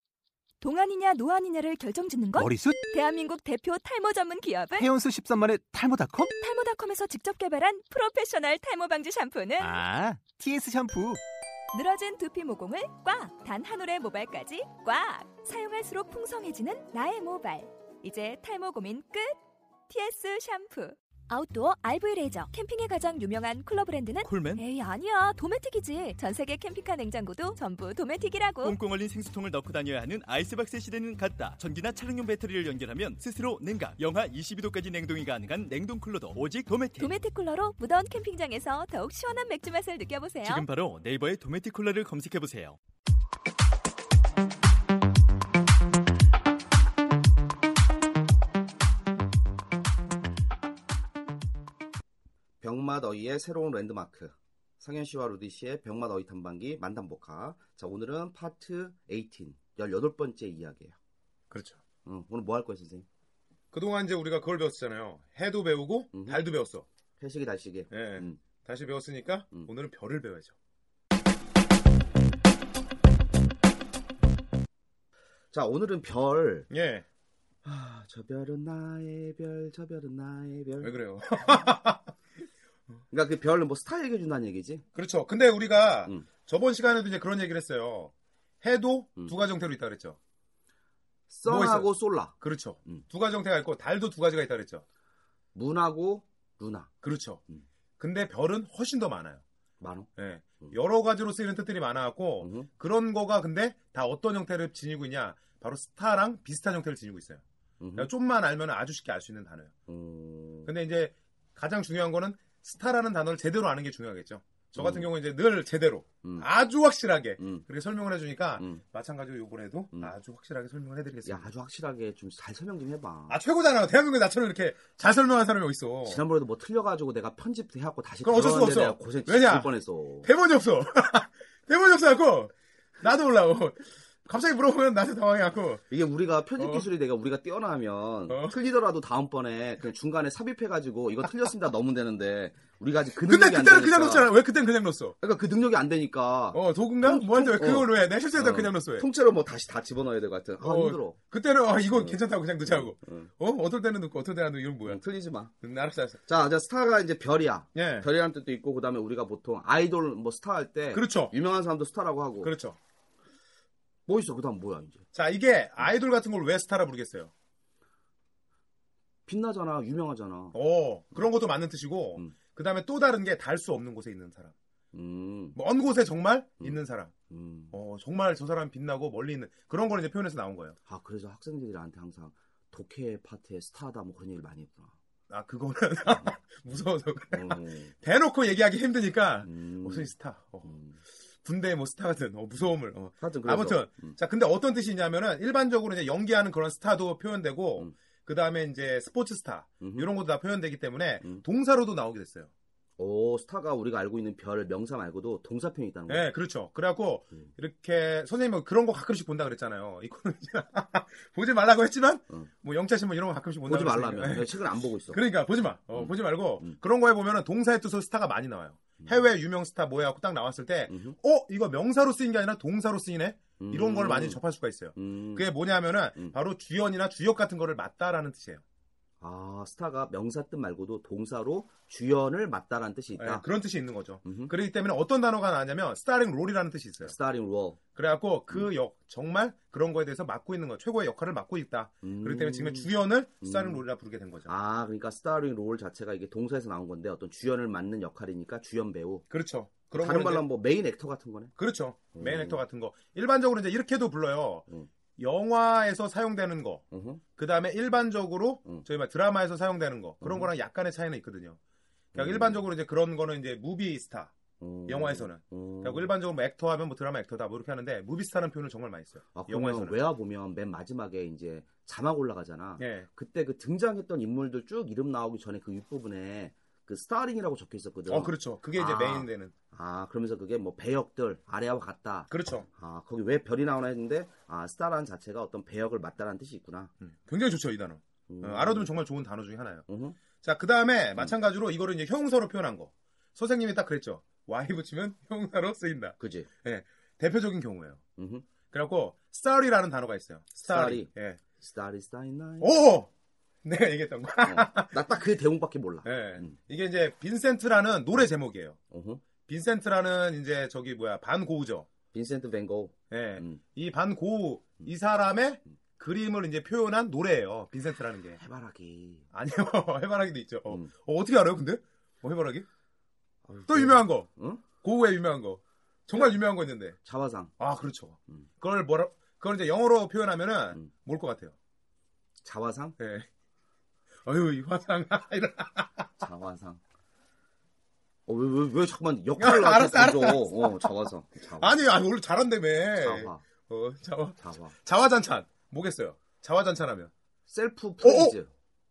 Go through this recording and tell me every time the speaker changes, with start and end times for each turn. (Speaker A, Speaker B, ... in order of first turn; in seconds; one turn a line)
Speaker A: 0.6-4.9
Speaker B: 2.4-2.8
Speaker B: 4.8-6.3
Speaker A: 6.2-9.8
Speaker B: 9.6-11.2
Speaker A: 11.7-19.4
Speaker A: 19.9-28.8
Speaker C: 24.2-24.6
Speaker C: 28.6-37.1
Speaker A: 37.0-40.6
Speaker C: 40.4-42.8
Speaker D: 52.6-61.0
Speaker E: 61.5-61.8
Speaker D: 62.0-63.1
Speaker E: 63.7-66.8
Speaker D: 66.1-66.5
Speaker D: 67.2-68.4
Speaker E: 67.9-70.5
Speaker D: 75.5-76.7
Speaker E: 76.7-77.0
Speaker D: 77.6-80.9
Speaker E: 80.8-82.1
Speaker D: 83.1-84.8
Speaker E: 84.9-90.2
Speaker D: 91.3-92.3
Speaker E: 91.5-94.8
Speaker D: 95.5-96.9
Speaker E: 97.0-97.4
Speaker E: 98.0-99.4
Speaker D: 99.8-100.1
Speaker E: 100.2-107.4
Speaker D: 102.4-102.7
Speaker D: 107.8-108.1
Speaker E: 107.9-109.7
Speaker D: 109.9-110.7
Speaker E: 110.7-121.5
Speaker D: 114.7-115.1
Speaker D: 116.2-116.5
Speaker D: 117.4-117.6
Speaker D: 118.6-118.8
Speaker D: 121.2-123.4
Speaker E: 123.3-126.2
Speaker D: 126.0-130.3
Speaker E: 128.2-135.8
Speaker D: 135.9-144.3
Speaker E: 136.6-136.9
Speaker E: 138.3-138.6
Speaker E: 143.2-145.2
Speaker D: 145.2-151.2
Speaker E: 146.5-149.1
Speaker E: 150.6-155.0
Speaker D: 151.9-153.3
Speaker D: 154.8-155.5
Speaker E: 155.6-156.2
Speaker D: 156.2-162.5
Speaker E: 157.7-158.1
Speaker E: 160.9-161.3
Speaker E: 162.4-162.8
Speaker D: 164.1-165.0
Speaker E: 165.1-167.3
Speaker D: 169.2-170.6
Speaker E: 170.5-174.5
Speaker D: 174.9-175.6
Speaker E: 175.6-177.1
Speaker D: 177.3-177.8
Speaker E: 177.7-180.8
Speaker D: 180.8-184.9
Speaker E: 185.3-190.8
Speaker D: 187.3-187.9
Speaker D: 189.4-190.1
Speaker D: 190.7-191.0
Speaker E: 191.4-202.5
Speaker D: 193.2-194.2
Speaker D: 199.8-200.1
Speaker D: 203.0-206.3
Speaker E: 206.1-228.6
Speaker D: 213.7-215.2
Speaker D: 215.9-216.8
Speaker D: 220.9-221.2
Speaker D: 223.6-224.4
Speaker D: 224.9-225.5
Speaker D: 229.2-233.4
Speaker E: 233.2-237.1
Speaker D: 234.2-234.5
Speaker D: 237.0-237.8
Speaker E: 237.9-244.5
Speaker D: 242.0-242.9
Speaker D: 243.4-243.8
Speaker D: 244.4-249.2
Speaker E: 249.3-250.4
Speaker D: 249.9-251.5
Speaker E: 251.6-256.8
Speaker D: 252.1-252.6
Speaker D: 256.9-257.2
Speaker E: 257.4-261.6
Speaker D: 260.2-260.5
Speaker D: 262.1-262.6
Speaker E: 262.1-264.3
Speaker D: 264.6-266.1
Speaker E: 264.9-270.0
Speaker D: 269.3-286.9
Speaker E: 272.8-273.1
Speaker E: 278.1-279.5
Speaker E: 282.3-282.7
Speaker E: 287.0-289.9
Speaker D: 288.3-288.9
Speaker D: 289.9-290.2
Speaker E: 290.4-298.0
Speaker D: 296.2-296.5
Speaker D: 298.2-298.4
Speaker E: 298.7-301.4
Speaker D: 300.6-302.8
Speaker E: 302.6-303.1
Speaker E: 303.6-305.1
Speaker D: 304.4-306.6
Speaker E: 306.0-308.8
Speaker D: 308.9-309.2
Speaker E: 309.4-311.9
Speaker D: 312.1-313.6
Speaker E: 313.1-318.4
Speaker D: 318.3-319.2
Speaker E: 319.3-322.6
Speaker D: 323.4-324.6
Speaker E: 323.7-327.0
Speaker D: 327.0-327.5
Speaker E: 327.6-331.5
Speaker D: 332.4-332.9
Speaker E: 333.0-333.3
Speaker E: 334.2-336.2
Speaker D: 336.2-336.8
Speaker D: 338.2-341.8
Speaker E: 339.4-347.1
Speaker D: 342.9-343.4
Speaker D: 344.4-344.7
Speaker D: 347.4-348.5
Speaker E: 348.0-348.4